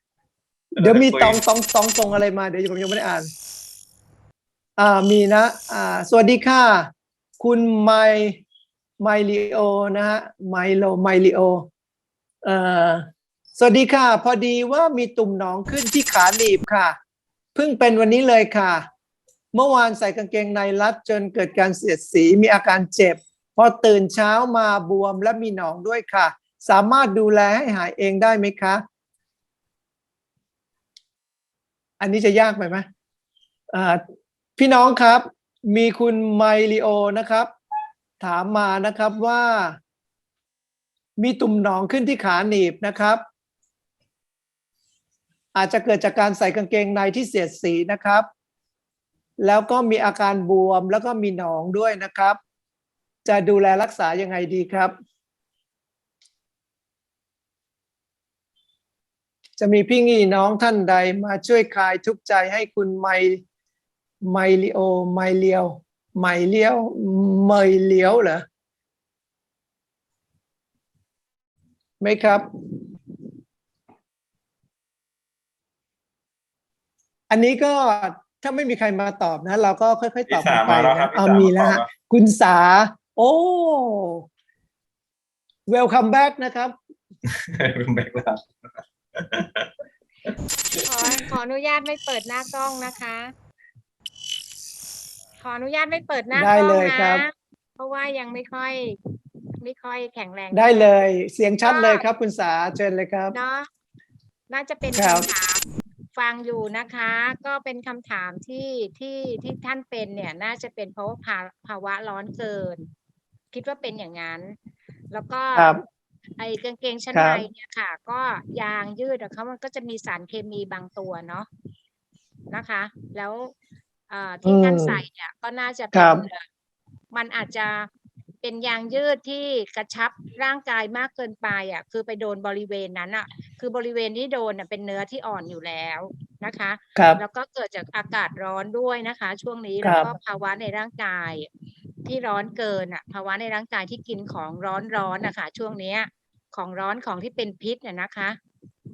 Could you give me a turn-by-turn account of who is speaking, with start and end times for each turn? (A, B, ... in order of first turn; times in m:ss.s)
0:00.8-0:01.4 A
0:00.8-0:03.3 B
0:04.8-0:08.4 B
0:09.0-0:11.7 B
0:12.4-0:17.0 B
0:17.6-0:18.9 B
0:19.5-0:28.8 B
0:32.0-0:32.8 B
0:33.7-0:34.0 B
0:34.6-0:37.5 B
0:38.2-0:39.8 B
0:41.2-0:43.2 B
0:45.6-0:48.3 B
0:49.4-0:52.4 B
0:53.2-0:54.9 B
0:59.6-1:03.4 B
1:04.2-1:08.4 B
1:12.0-1:12.5 B
1:17.3-1:24.2 B
1:20.3-1:21.9 A
1:25.7-1:26.8 B
1:27.5-1:28.5 A
1:29.2-1:29.7 A
1:30.8-1:33.3 C
1:35.4-1:39.0 C
1:36.3-1:37.3 B
1:39.6-1:40.9 C
1:40.5-1:43.4 B
1:41.6-1:42.0 C
1:43.3-1:43.7 C
1:44.5-1:52.9 C
1:45.0-1:45.3 B
1:53.5-1:54.6 C
1:55.1-1:55.8 C
1:55.5-1:55.8 B
1:56.4-2:01.5 C
1:57.1-1:57.4 B
2:02.5-2:03.5 C
2:04.1-2:06.4 C
2:04.4-2:05.0 B
2:05.9-2:06.2 B
2:07.1-2:07.9 C
2:08.4-2:21.5 C
2:17.0-2:17.2 B
2:19.8-2:20.1 B
2:22.0-2:28.4 C